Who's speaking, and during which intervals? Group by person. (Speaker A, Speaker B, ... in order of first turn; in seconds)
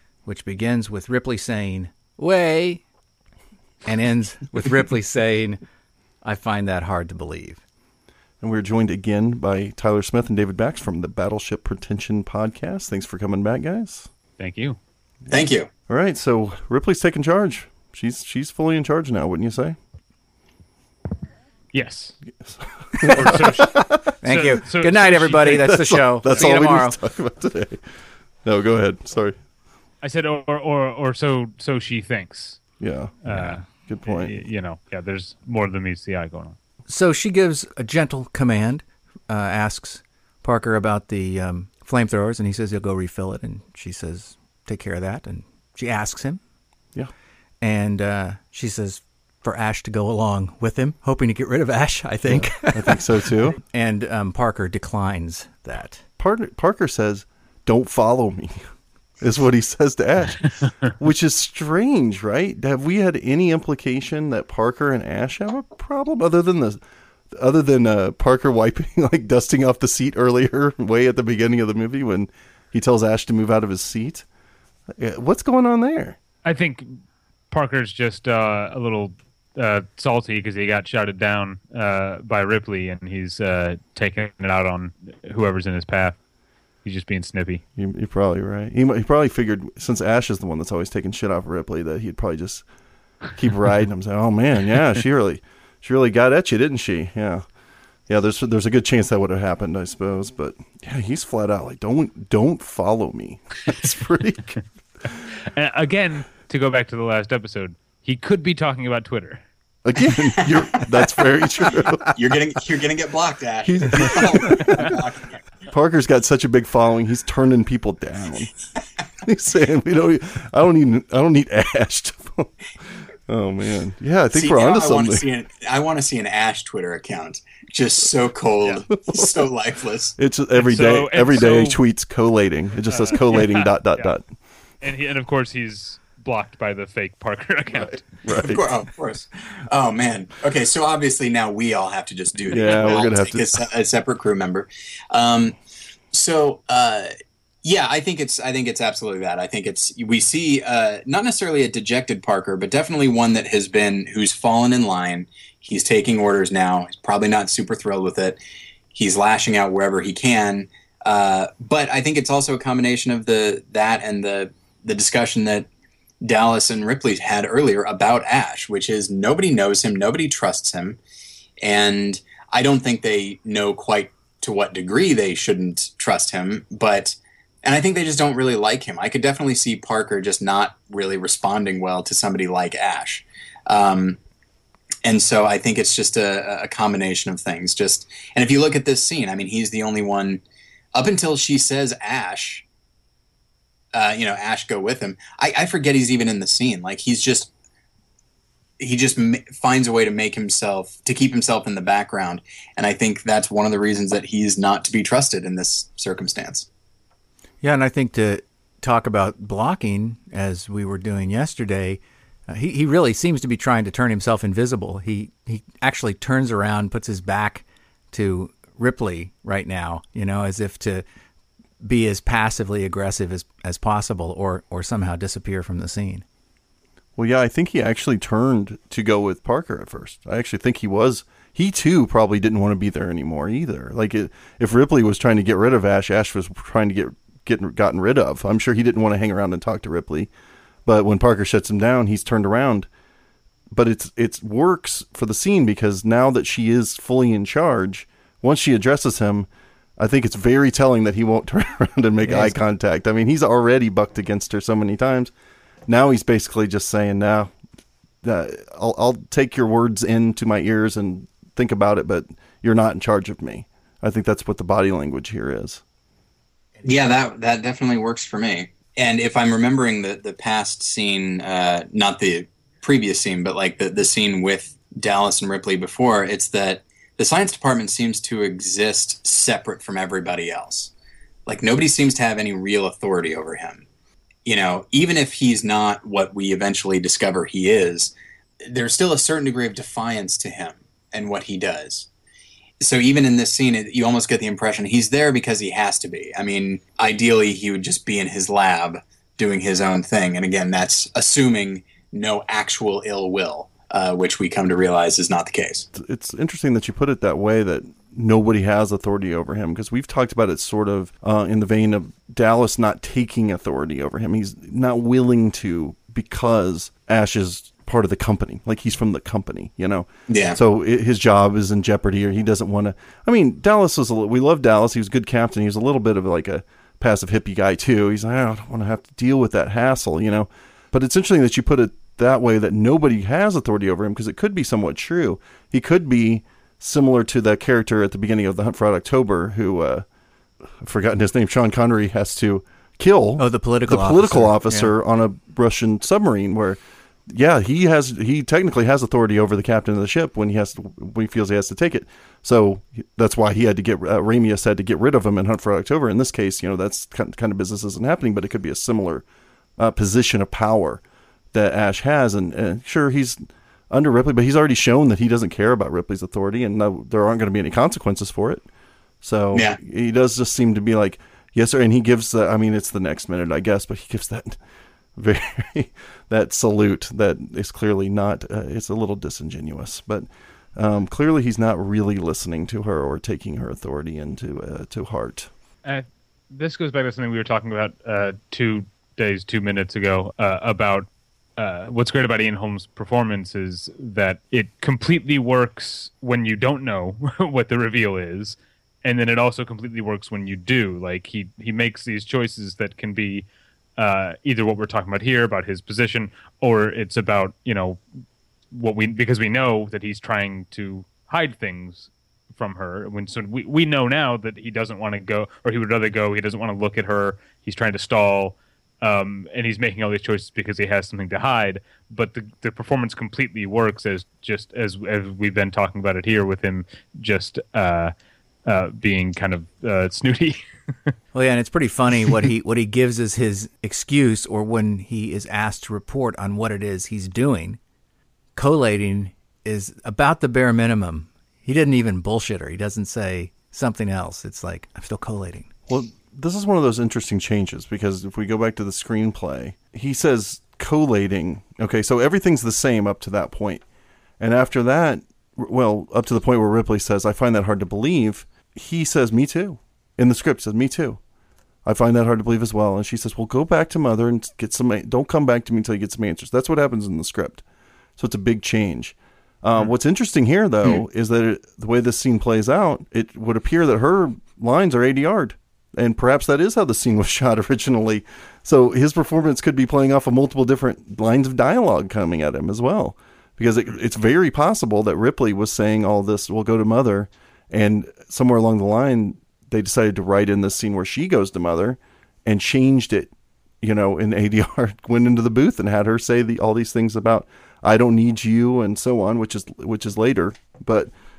Speaker A: 0.2-2.8, 3.8-5.6, 6.2-7.6, 24.2-27.0, 33.3-33.6, 36.9-46.4, 47.6-56.0, 207.6-221.0, 221.8-226.2, 252.2-252.6, 266.8-267.1, 343.4-344.9, 431.3-437.8, 438.5-445.7
Speaker B: 8.4-14.1, 15.3-19.8, 22.4-24.1, 25.6-27.8, 28.4-29.4, 32.8-33.2, 33.8-34.4, 52.3-53.6, 56.2-58.6, 59.2-66.8, 67.3-74.2, 75.0-76.2, 87.8-92.7, 93.3-97.4, 98.1-104.6, 109.8-112.1, 113.6-114.9, 115.7-118.5, 119.2-122.7, 123.3-125.2, 129.0-129.4, 130.2-134.2, 137.7-138.7, 142.5-143.6, 227.2-240.3, 240.8-242.9, 243.7-255.3, 255.9-257.5, 258.2-265.8, 305.9-340.0, 340.8-359.2, 359.8-361.0, 361.5-368.6, 369.2-374.6, 375.2-385.5, 445.9-453.8, 454.4-461.2, 461.8-467.6, 468.2-501.1
Speaker C: 14.4-14.8, 21.7-22.2, 23.0-25.7, 26.2-26.5, 30.0-32.6, 33.2-36.6, 76.4-76.8, 77.5-86.2, 86.8-87.6, 105.5-109.4, 130.6-131.8, 132.9-134.1, 134.8-138.1, 142.6-143.1, 385.8-408.0, 408.7-428.1, 428.6-431.1
Speaker D: 15.3-15.7, 110.1-111.1, 112.1-115.4, 124.3-130.1, 138.4-145.6, 146.1-147.1, 147.6-158.4, 158.9-165.7, 166.2-171.0, 171.6-184.2, 185.0-190.4, 190.9-192.6, 193.9-197.5, 198.8-206.7, 266.8-280.9, 281.5-283.8, 284.4-288.1, 288.6-292.1, 292.8-305.9, 320.3-320.6